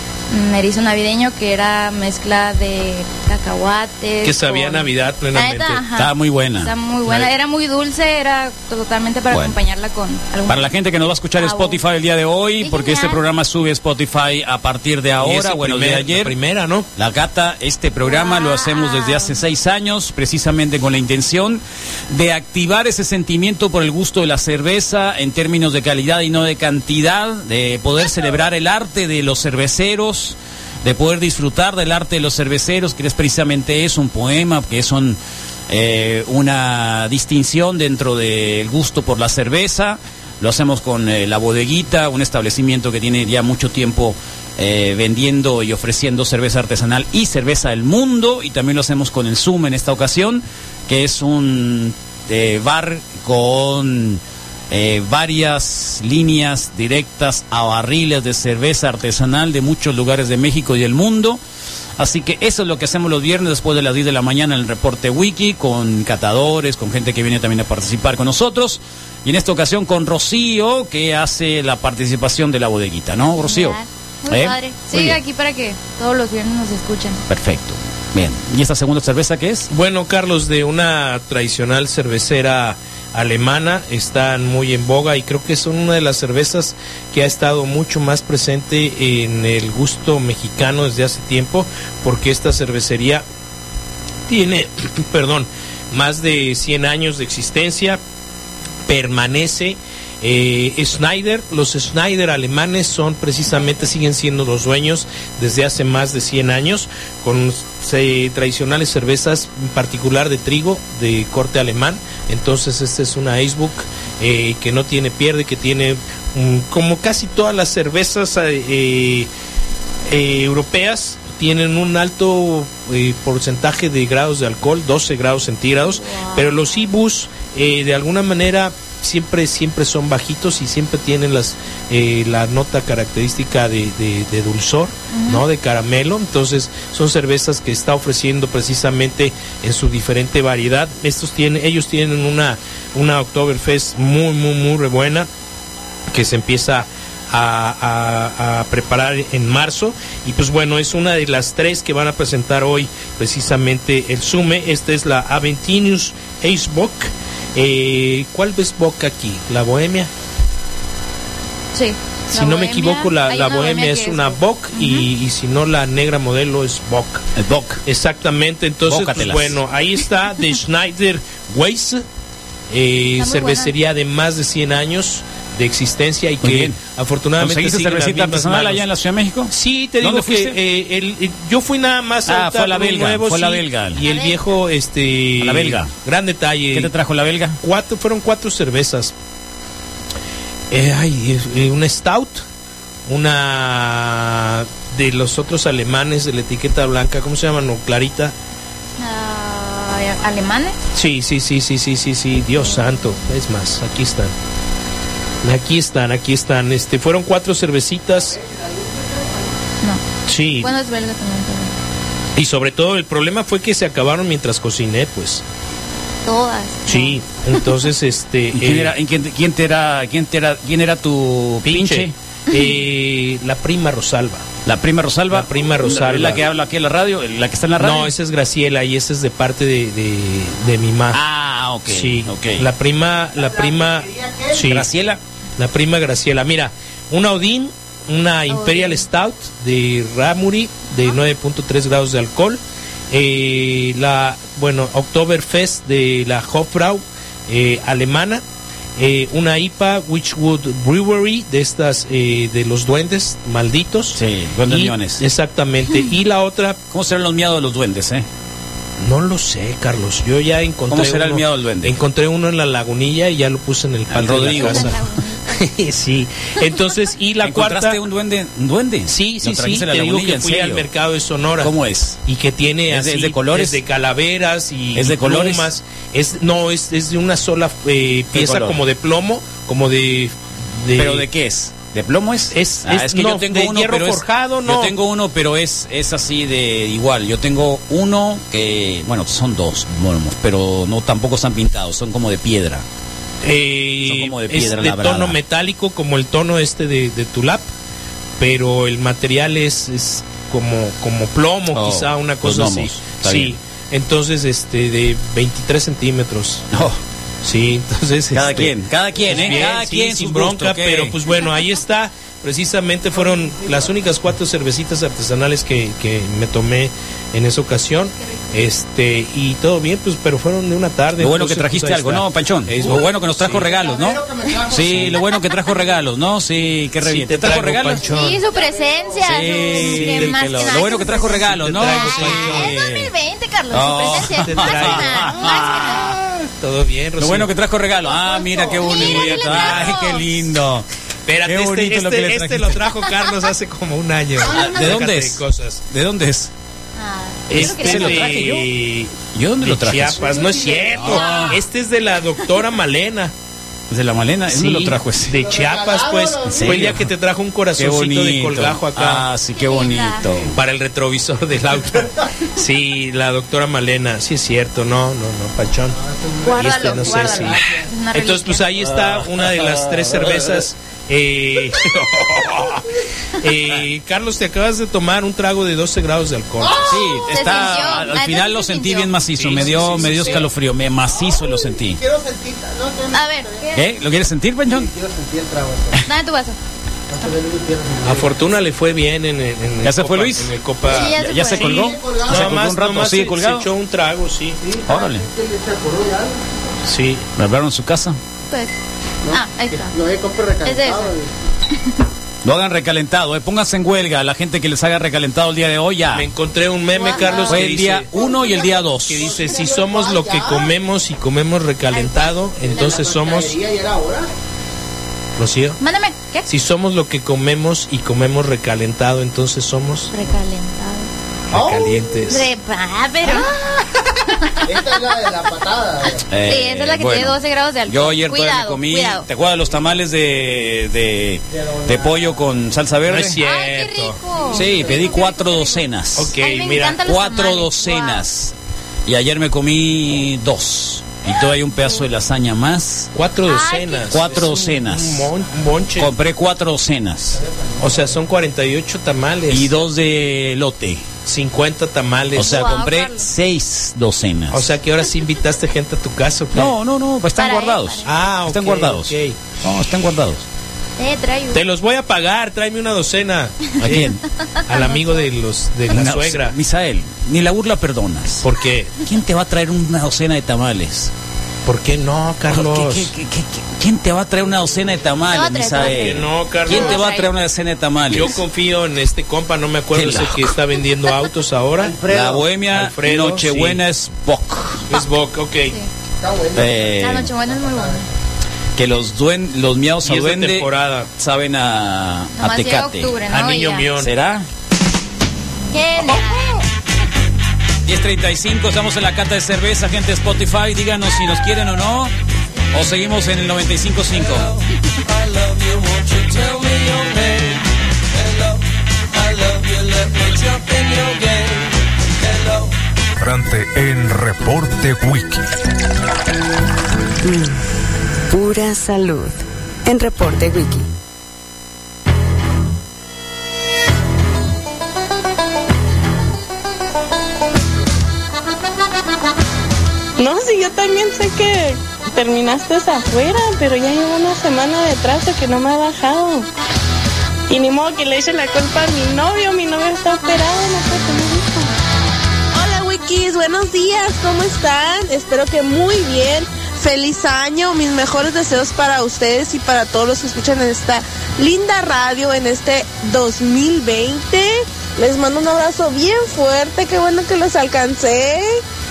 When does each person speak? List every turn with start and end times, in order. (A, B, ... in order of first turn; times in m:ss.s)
0:00.3-0:10.7 A
0:04.2-0:05.8 B
0:05.9-0:06.7 C
0:09.3-0:09.6 C
0:10.5-0:16.4 C
0:11.4-0:11.8 A
0:12.6-0:13.2 A
0:15.2-0:16.9 B
0:17.0-0:35.2 C
0:18.1-0:19.4 A
0:35.7-1:01.4 C
1:02.0-1:15.2 C
1:13.4-1:17.2 A
1:17.3-1:19.7 C
1:19.7-1:33.2 B
1:34.3-1:38.0 B
1:38.9-1:59.3 B
2:00.1-2:25.3 B
2:06.0-2:06.5 A
2:15.1-2:15.4 A
2:26.1-2:40.1 B
2:41.7-2:45.1 A
2:42.3-2:47.2 B
2:47.4-2:47.8 C
2:47.9-2:52.0 B
2:48.9-2:49.6 C
2:52.7-2:58.8 B
2:53.2-2:53.7 A
2:56.4-2:56.8 C
2:57.4-3:00.6 C
2:59.5-3:06.9 B
3:02.3-3:04.0 C
3:04.0-3:04.6 A
3:05.4-3:05.9 C
3:06.7-3:07.6 C
3:07.6-3:09.1 B
3:10.7-3:12.4 B
3:13.1-3:18.3 B
3:19.0-3:20.8 A
3:20.9-3:24.3 B
3:25.4-3:28.4 B
3:28.4-3:29.5 D
3:30.3-3:30.7 B
3:30.6-3:31.7 A
3:32.4-3:35.4 B
3:36.3-3:37.2 A
3:36.9-3:38.9 B
3:38.5-3:42.1 C
3:41.7-3:44.4 B
3:44.7-3:48.1 C
3:45.3-3:46.4 B
3:47.8-3:51.2 B
3:51.1-3:52.7 C
3:51.9-3:54.9 B
3:53.4-3:54.6 D
3:54.6-3:55.2 C
3:55.6-4:02.6 B
3:58.5-3:59.1 A
4:03.1-4:08.4 B
4:09.0-4:16.8 B
4:14.1-4:15.2 C
4:16.9-4:18.3 C
4:19.0-4:28.0 B
4:20.9-4:22.0 C
4:24.1-4:25.0 C
4:24.6-4:25.5 A
4:27.4-4:30.9 C
4:29.1-4:31.7 B
4:31.6-4:32.2 C
4:32.3-4:41.2 B
4:32.9-4:33.8 C
4:35.0-4:35.7 C
4:38.3-4:38.8 C
4:41.0-4:52.8 C
4:42.5-4:45.0 B
4:53.4-4:57.7 B
4:54.0-4:55.4 C
4:58.4-5:06.7 B
5:01.7-5:03.6 C
5:06.7-5:07.0 C
5:07.4-5:23.7 B
5:08.3-5:11.2 C
5:13.2-5:13.8 D
5:21.2-5:28.1 C
5:23.5-5:25.3 D
5:27.0-5:28.4 B
5:28.1-5:36.2 A
5:28.4-5:29.7 D
5:29.2-5:33.1 C
5:29.8-5:32.8 B
5:33.7-5:36.3 C
5:34.1-5:35.4 B
5:36.4-5:37.5 B
5:37.2-5:40.9 C
5:38.2-5:40.3 A
5:38.8-5:40.0 B
5:41.3-5:45.8 B
5:41.4-5:42.8 C
5:44.4-5:46.5 C
5:47.0-5:48.6 A
5:47.5-5:53.3 B
5:47.5-5:48.7 C
5:49.3-5:50.4 C
5:50.4-5:51.1 D
5:50.9-5:51.6 C
5:51.0-5:51.6 A
5:53.9-5:55.4 C
5:54.5-5:59.3 B
5:55.4-5:57.0 D
5:56.5-5:57.1 C
5:57.8-6:00.6 C
5:59.6-6:00.3 A
6:00.5-6:07.6 B
6:06.1-6:07.8 D
6:06.4-6:08.7 A
6:08.1-6:17.0 B
6:08.8-6:10.6 C
6:16.6-6:17.2 D
6:16.8-6:22.0 C
6:17.3-6:19.2 A
6:19.4-6:20.5 B
6:21.1-6:23.7 D
6:23.1-6:23.9 A
6:23.8-6:24.9 C
6:24.7-6:26.0 D
6:26.1-6:26.6 A
6:27.1-6:28.4 D
6:28.0-6:34.6 B
6:29.8-6:33.7 C
6:30.9-6:31.8 A
6:31.6-6:32.6 D
6:34.6-6:36.4 D
6:34.9-6:35.3 C
6:36.9-6:37.2 B
6:37.4-6:38.2 C
6:39.2-6:41.3 D
6:39.3-6:39.9 A
6:40.6-6:41.1 A
6:42.4-6:46.3 C
6:46.1-6:48.1 B
6:47.0-6:47.6 A
6:47.2-6:47.5 D
6:47.5-6:49.4 C
6:48.1-6:50.7 D
6:49.1-6:53.6 B
6:51.9-6:52.4 A
6:52.6-6:54.3 D
6:55.4-6:55.8 B
6:55.8-6:56.5 A
6:56.5-7:00.1 B
7:00.1-7:01.1 A
7:01.5-7:02.5 B
7:01.5-7:02.1 D
7:02.3-7:03.6 A
7:04.6-7:06.3 D
7:06.3-7:13.4 C
7:06.4-7:09.3 A
7:11.5-7:12.3 D
7:13.1-7:14.8 B
7:13.4-7:15.9 A
7:14.5-7:16.4 C
7:14.6-7:15.1 D
7:16.2-7:17.0 B
7:16.4-7:18.2 A
7:17.0-7:18.5 C
7:19.1-7:23.1 C
7:23.2-7:26.1 B
7:23.5-7:24.3 A
7:24.1-7:25.3 C
7:26.0-7:27.4 C
7:27.4-7:28.1 D
7:27.8-7:29.7 B
7:29.5-7:31.1 C
7:31.3-7:32.7 B
7:32.4-7:34.7 C
7:32.4-7:33.3 A
7:34.5-7:36.8 B
7:36.5-7:40.4 C
7:37.4-7:38.1 A
7:38.1-7:39.4 B
7:41.0-7:41.6 A
7:41.5-7:44.2 B
7:43.8-7:44.2 C
7:44.7-7:46.6 B
7:44.7-7:45.1 A
7:45.9-7:51.1 C
7:48.4-7:49.0 B
7:51.6-7:53.1 B
7:52.5-7:58.4 C
7:55.3-7:57.3 A
7:55.7-7:57.0 B
7:58.1-8:02.0 B
7:59.9-8:00.6 C
8:01.8-8:02.5 D
8:02.1-8:04.9 C
8:02.7-8:03.8 B
8:04.9-8:05.8 B
8:06.2-8:08.0 D
8:06.6-8:07.3 C
8:07.0-8:08.1 A
8:08.8-8:13.2 C
8:10.0-8:11.1 B
8:12.4-8:13.9 A
8:13.3-8:14.1 B
8:14.0-8:14.5 C
8:15.7-8:16.6 A
8:17.9-8:22.1 C
8:22.7-8:24.5 C
8:25.1-8:27.6 E
8:28.2-8:28.6 E
8:29.2-8:31.7 E
8:32.2-8:32.7 E
8:33.2-8:35.5 F
8:37.2-8:37.6 G
8:38.3-8:40.9 G
8:50.2-8:56.5 H
8:57.5-9:01.7 H
9:02.5-9:18.6 H